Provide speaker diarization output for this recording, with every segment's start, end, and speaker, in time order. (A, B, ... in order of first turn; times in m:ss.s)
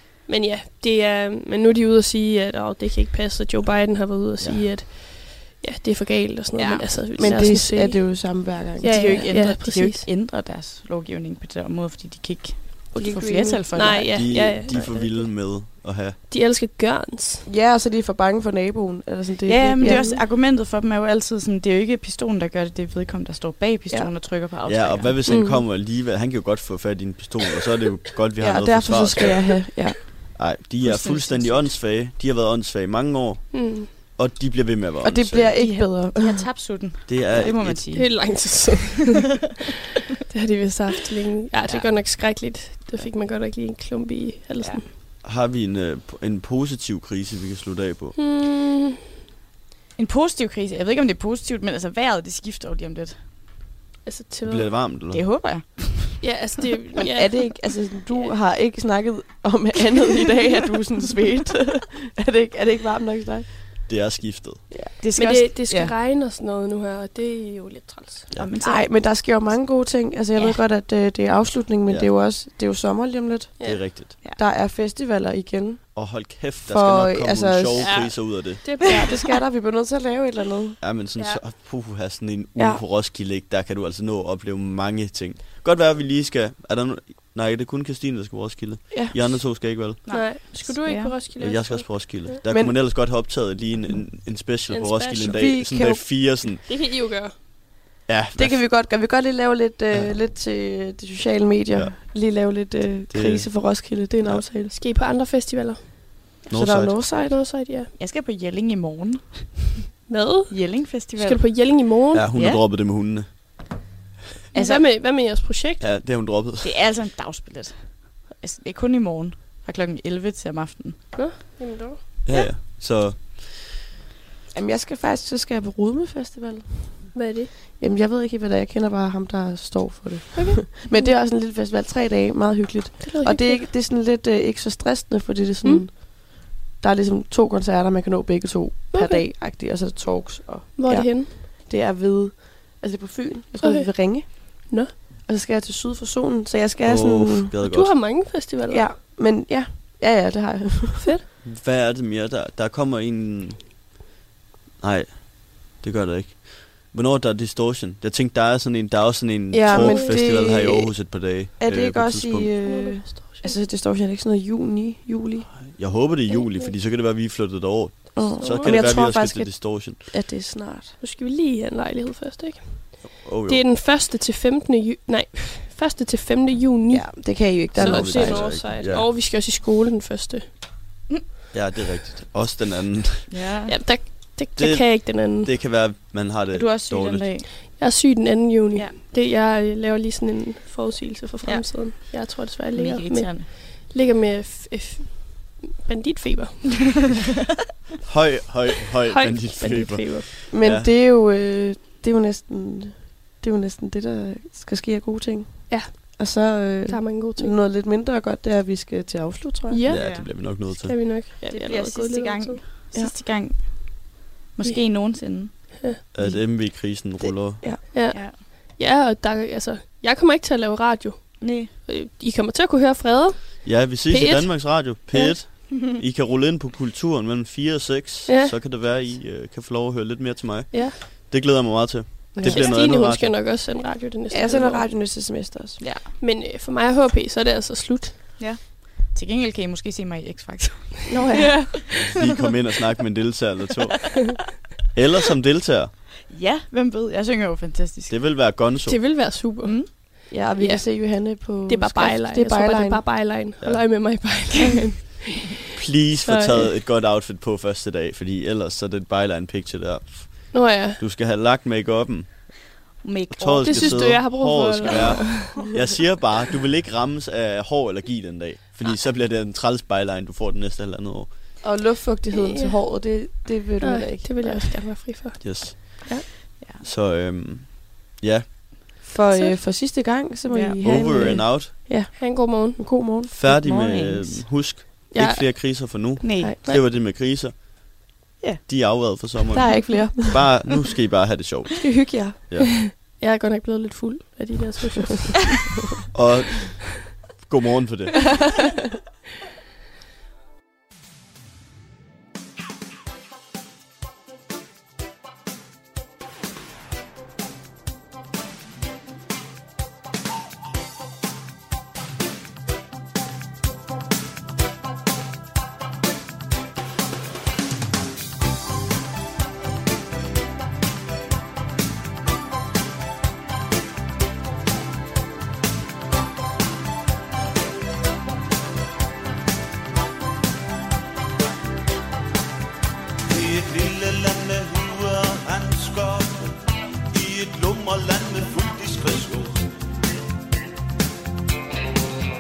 0:00.3-0:10.1 A
0:04.4-0:04.7 B
0:06.6-0:07.5 C
0:07.2-0:09.3 D
0:08.8-0:14.1 C
0:13.0-0:13.6 D
0:13.0-0:15.3 A
0:14.1-0:16.2 B
0:16.3-0:17.5 A
0:17.5-0:20.2 D
0:19.5-0:25.2 C
0:19.8-0:20.1 A
0:24.7-0:29.7 B
0:25.3-0:25.6 A
0:28.4-0:30.0 D
0:30.3-0:35.6 B
0:30.8-0:31.8 C
0:33.5-0:33.9 A
0:35.0-0:36.4 D
0:35.6-0:38.1 C
0:37.1-0:38.2 B
0:38.0-0:39.3 A
0:40.3-0:44.8 A
0:45.2-0:48.2 B
0:48.2-0:49.0 A
0:50.0-0:53.2 C
0:54.0-0:54.7 A
0:54.4-0:55.3 B
0:55.1-0:56.2 C
0:56.2-0:57.5 A
0:57.0-1:03.5 D
1:03.9-1:04.7 B
1:05.0-1:05.9 C
1:05.2-1:08.3 A
1:08.4-1:08.9 C
1:08.6-1:15.9 D
1:13.6-1:14.2 B
1:15.9-1:18.6 B
1:16.6-1:18.0 D
1:17.8-1:19.2 A
1:18.8-1:20.8 D
1:20.8-1:30.0 B
1:21.2-1:21.4 A
1:22.6-1:22.8 D
1:28.9-1:29.4 D
1:30.0-1:31.1 C
1:30.1-1:32.4 A
1:31.4-1:36.7 B
1:32.5-1:32.8 D
1:34.7-1:35.9 A
1:35.2-1:36.0 D
1:36.6-1:37.3 A
1:38.1-1:38.6 B
1:38.4-1:44.7 D
1:43.1-1:44.4 B
1:44.7-1:45.8 A
1:46.5-1:47.4 D
1:46.5-1:47.0 B
1:47.2-1:47.9 A
1:48.0-1:49.6 C
1:50.1-1:52.3 A
1:50.5-1:51.8 C
1:52.1-1:53.6 B
1:52.4-1:52.6 C
1:54.5-1:54.8 C
1:54.5-1:55.9 A
1:55.8-1:56.8 B
1:56.6-2:01.1 C
2:01.1-2:02.0 A
2:02.2-2:03.5 B
2:04.5-2:07.2 D
2:07.1-2:07.5 A
2:07.8-2:27.5 D
2:10.4-2:11.2 A
2:13.0-2:13.7 A
2:18.9-2:19.2 A
2:20.8-2:21.3 A
2:23.6-2:24.9 A
2:26.8-2:28.0 B
2:27.6-2:28.9 A
2:28.7-2:31.1 D
2:31.4-2:33.6 B
2:34.8-2:42.5 B
2:39.5-2:45.5 D
2:39.7-2:40.2 A
2:42.6-2:43.6 A
2:45.6-2:50.0 B
2:46.3-2:46.7 A
2:48.2-2:51.0 D
2:48.3-2:49.0 A
2:51.0-3:00.5 A
2:53.2-2:53.6 B
2:56.9-2:58.6 D
2:57.7-2:59.1 B
3:01.5-3:03.3 B
3:03.3-3:03.7 C
3:03.7-3:05.5 A
3:04.6-3:07.4 B
3:06.5-3:07.5 C
3:07.8-3:17.0 A
3:11.4-3:12.1 C
3:12.7-3:13.5 C
3:18.0-3:20.9 B
3:19.1-3:20.3 A
3:20.5-3:29.8 D
3:25.7-3:27.6 A
3:29.7-3:32.6 A
3:29.9-3:31.0 B
3:30.0-3:30.3 C
3:31.5-3:36.4 C
3:35.5-3:36.0 A
3:36.1-3:37.6 B
3:37.2-3:37.8 D
3:37.9-3:45.3 A
3:38.1-3:38.4 C
3:41.4-3:41.7 C
3:43.6-3:53.4 B
3:48.3-3:48.6 A
3:52.4-3:52.7 D
3:52.4-3:54.9 A
3:54.3-3:55.8 D
3:55.8-3:56.1 C
3:56.2-3:58.2 A
3:58.4-4:01.1 C
4:01.1-4:01.8 D
4:02.0-4:05.9 B
4:06.3-4:08.2 C
4:08.1-4:09.0 B
4:08.9-4:16.7 A
4:09.6-4:09.9 C
4:10.3-4:13.0 D
4:13.6-4:13.8 B
4:15.7-4:22.7 B
4:20.5-4:21.0 A
4:23.0-4:24.2 C
4:23.3-4:31.3 B
4:23.7-4:25.6 A
4:31.6-4:34.9 D
4:32.3-4:32.8 A
4:33.8-4:36.2 A
4:35.4-4:38.6 B
4:39.0-4:43.3 D
4:39.3-4:39.6 A
4:40.5-4:40.8 C
4:40.8-4:41.9 B
4:42.1-4:42.8 A
4:43.3-4:47.6 B
4:43.4-4:44.6 C
4:45.2-4:45.4 A
4:46.2-4:46.6 C
4:46.4-4:46.7 D
4:48.6-4:52.8 B
4:49.5-4:50.4 D
4:51.8-4:52.4 D
4:53.0-4:55.4 A
4:56.1-4:58.3 B
5:33.3-5:36.6 E
5:37.1-5:39.7 E